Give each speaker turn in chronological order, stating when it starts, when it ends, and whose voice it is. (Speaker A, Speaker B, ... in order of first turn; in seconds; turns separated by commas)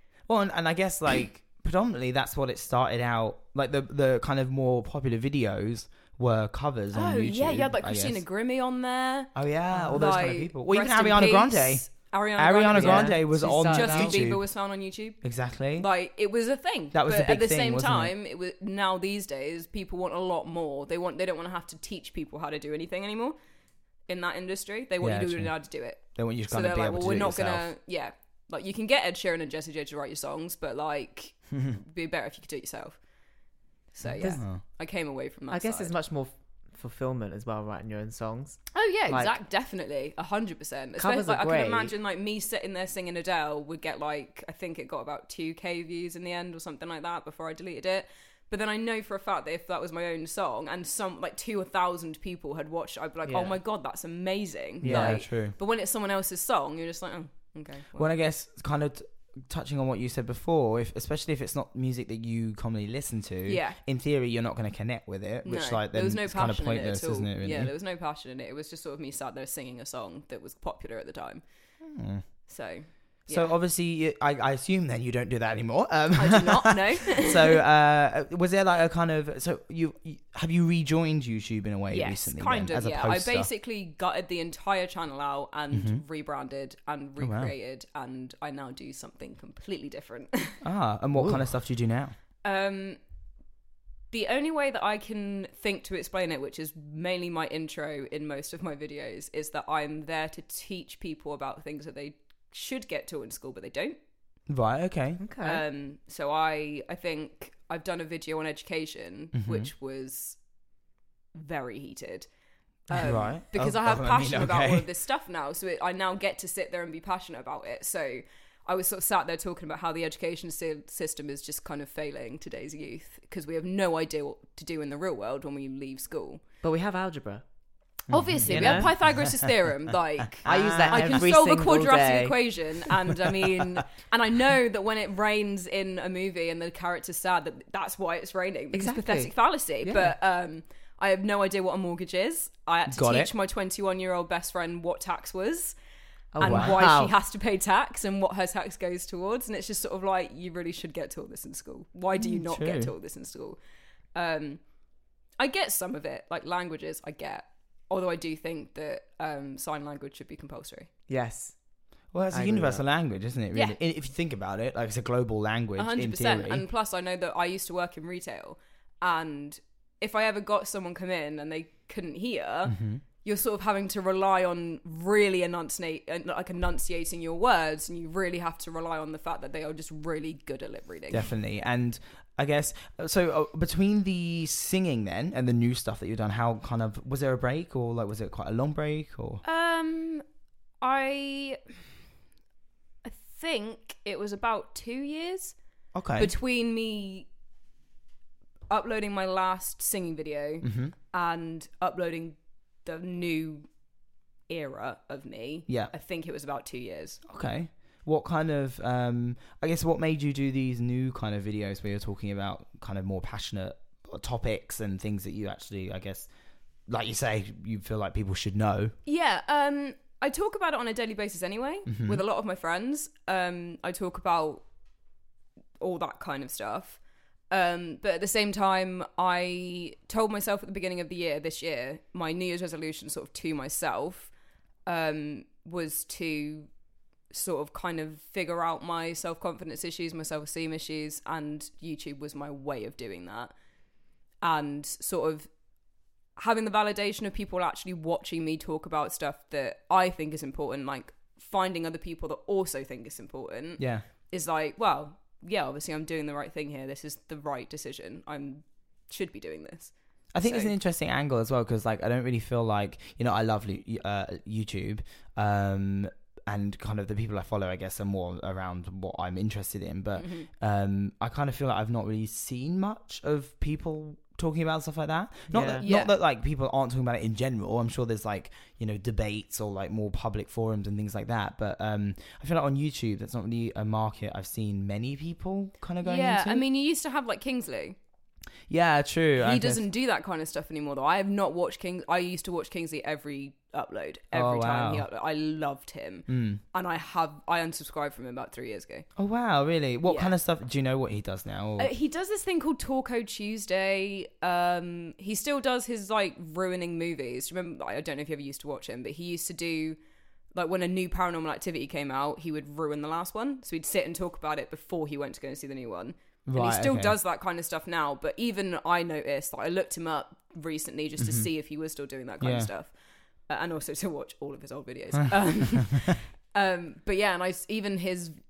Speaker A: 0.3-8.2, Speaker B: 6.9-9.3, Speaker A: 9.3-11.8, Speaker C: 9.7-10.0, Speaker B: 9.9-15.2, Speaker A: 12.4-14.4, Speaker C: 12.7-14.2, Speaker A: 15.2-15.9, Speaker B: 15.8-23.4, Speaker A: 16.9-18.1, Speaker B: 24.1-33.0, Speaker A: 25.0-25.5, Speaker A: 26.1-27.7, Speaker B: 33.9-35.9, Speaker A: 34.0-34.6, Speaker C: 35.5-39.3, Speaker B: 38.7-58.1, Speaker C: 41.0-41.9, Speaker C: 53.3-53.6, Speaker C: 54.8-55.2, Speaker A: 54.8-55.5, Speaker A: 58.0-67.7, Speaker B: 63.5-63.8, Speaker B: 65.5-71.4, Speaker A: 71.8-72.2, Speaker B: 72.5-73.5, Speaker A: 73.3-83.5, Speaker B: 76.2-77.6, Speaker B: 81.9-90.6, Speaker A: 85.7-86.0, Speaker A: 87.2-87.5, Speaker A: 90.6-92.2, Speaker B: 92.4-93.0, Speaker B: 94.1-104.0, Speaker A: 104.5-105.2, Speaker C: 105.2-105.6, Speaker B: 105.4-110.4, Speaker A: 109.3-109.7, Speaker B: 111.3-112.3, Speaker B: 112.9-126.4, Speaker A: 112.9-114.9, Speaker C: 126.6-127.4, Speaker A: 128.1-129.5, Speaker B: 128.1-145.8, Speaker C: 128.5-128.9, Speaker A: 130.4-131.3, Speaker C: 130.4-132.4, Speaker C: 138.7-140.1, Speaker A: 142.9-143.3, Speaker C: 146.3-147.1, Speaker B: 146.4-153.6, Speaker A: 146.4-146.8, Speaker A: 152.2-152.9, Speaker B: 154.2-154.6, Speaker B: 155.4-160.9, Speaker C: 161.1-161.6, Speaker A: 162.1-166.7, Speaker C: 162.3-162.8, Speaker B: 165.8-181.3, Speaker A: 172.7-173.0, Speaker A: 181.1-189.4, Speaker B: 189.4-190.2, Speaker B: 190.8-191.6, Speaker B: 193.0-195.6, Speaker A: 195.9-196.3, Speaker B: 196.2-197.3, Speaker B: 198.7-203.7, Speaker A: 200.6-200.9, Speaker B: 204.5-207.2, Speaker A: 207.3-216.3, Speaker A: 216.9-218.9, Speaker B: 219.1-224.7, Speaker A: 221.9-222.2, Speaker B: 225.8-227.0, Speaker B: 227.5-234.3, Speaker B: 234.9-236.7, Speaker B: 237.3-243.5, Speaker B: 244.4-245.5, Speaker B: 246.4-260.7, Speaker A: 253.8-254.1, Speaker A: 260.3-286.6, Speaker B: 270.2-270.5, Speaker C: 275.5-275.9, Speaker B: 275.8-276.1, Speaker B: 286.0-288.0, Speaker A: 288.7-289.8, Speaker B: 289.4-299.1, Speaker A: 294.3-295.1, Speaker A: 296.3-296.6, Speaker A: 299.2-301.9, Speaker B: 300.0-300.3, Speaker B: 301.8-310.0, Speaker B: 310.6-322.9, Speaker A: 316.5-317.2, Speaker A: 321.2-321.5, Speaker A: 322.4-322.7, Speaker B: 323.5-328.4